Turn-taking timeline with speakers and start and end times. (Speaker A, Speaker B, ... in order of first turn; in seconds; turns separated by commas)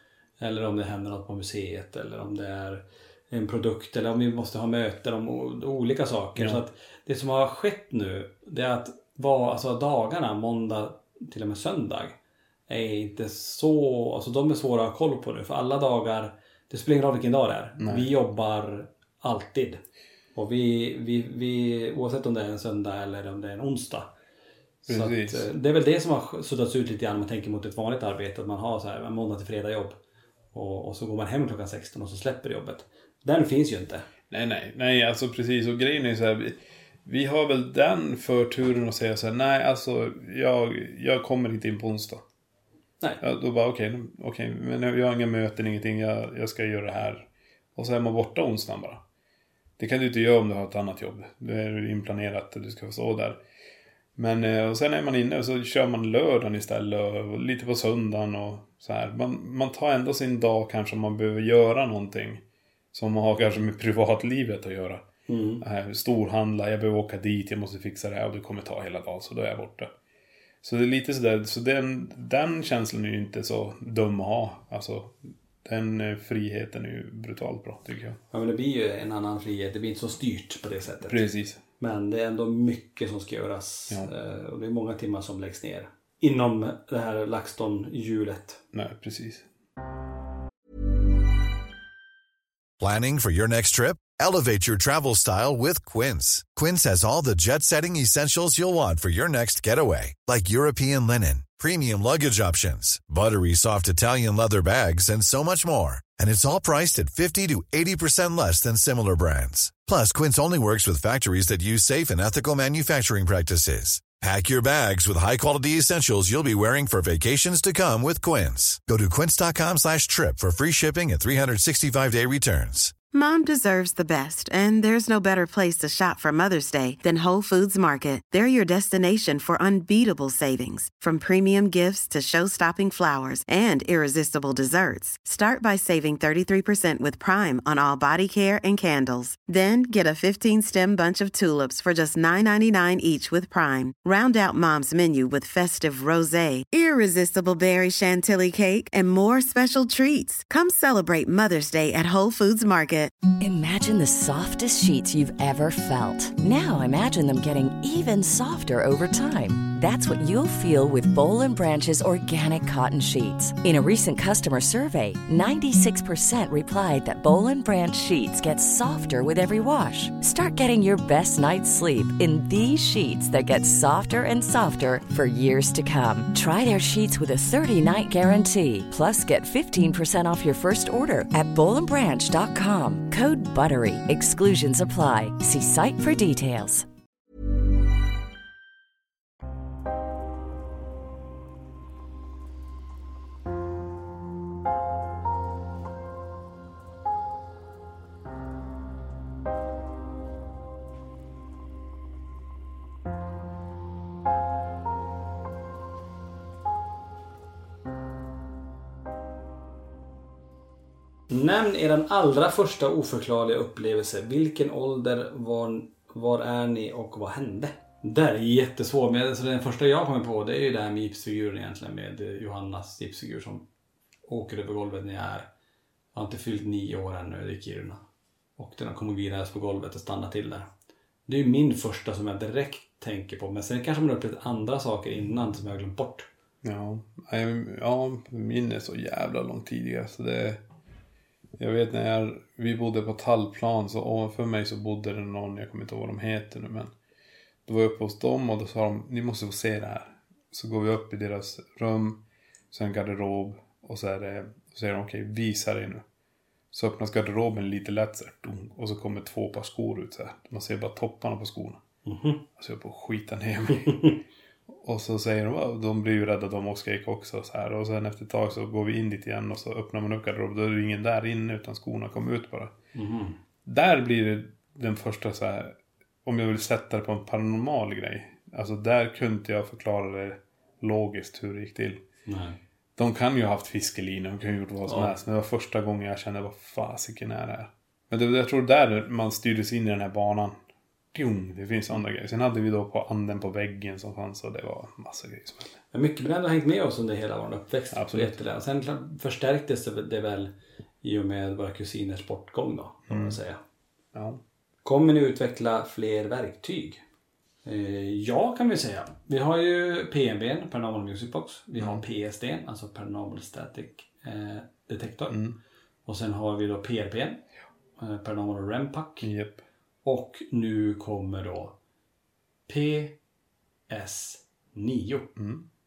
Speaker A: 0.4-12.2, Speaker B: 6.4-6.6, Speaker A: 12.7-19.8, Speaker B: 17.8-18.1, Speaker A: 20.4-24.1, Speaker A: 24.9-30.0, Speaker B: 24.9-25.5, Speaker A: 30.5-34.1, Speaker B: 34.3-42.2, Speaker B: 43.2-49.0, Speaker B: 49.8-53.4, Speaker B: 54.2-65.0, Speaker A: 65.3-65.6, Speaker B: 65.6-69.9, Speaker B: 70.6-78.2, Speaker A: 78.3-81.2, Speaker B: 81.0-81.6, Speaker A: 81.8-88.6, Speaker B: 88.7-89.5, Speaker C: 92.8-123.0, Speaker D: 123.1-153.1, Speaker E: 153.4-186.9, Speaker A: 211.3-223.6, Speaker A: 224.3-225.5, Speaker A: 226.1-228.0, Speaker A: 228.6-230.7, Speaker A: 231.3-236.3, Speaker B: 236.6-240.6, Speaker B: 241.6-246.9, Speaker B: 247.7-256.0, Speaker B: 256.7-261.8, Speaker A: 262.1-262.4, Speaker B: 262.6-264.2, Speaker A: 263.8-264.2, Speaker B: 264.7-272.7, Speaker A: 272.9-273.4, Speaker B: 273.7-282.0, Speaker A: 282.3-282.6, Speaker B: 283.0-290.6, Speaker A: 284.9-285.2, Speaker B: 291.1-295.8, Speaker A: 295.9-300.5, Speaker B: 297.9-298.4, Speaker A: 301.0-303.6, Speaker B: 303.1-303.4, Speaker B: 304.1-304.4, Speaker A: 304.9-307.0, Speaker A: 307.6-315.4, Speaker B: 311.8-312.0, Speaker B: 315.3-315.6, Speaker A: 316.1-317.4, Speaker A: 318.0-319.3, Speaker B: 319.2-319.6, Speaker A: 320.0-321.7, Speaker A: 322.7-323.1, Speaker A: 323.9-325.3, Speaker B: 325.4-325.7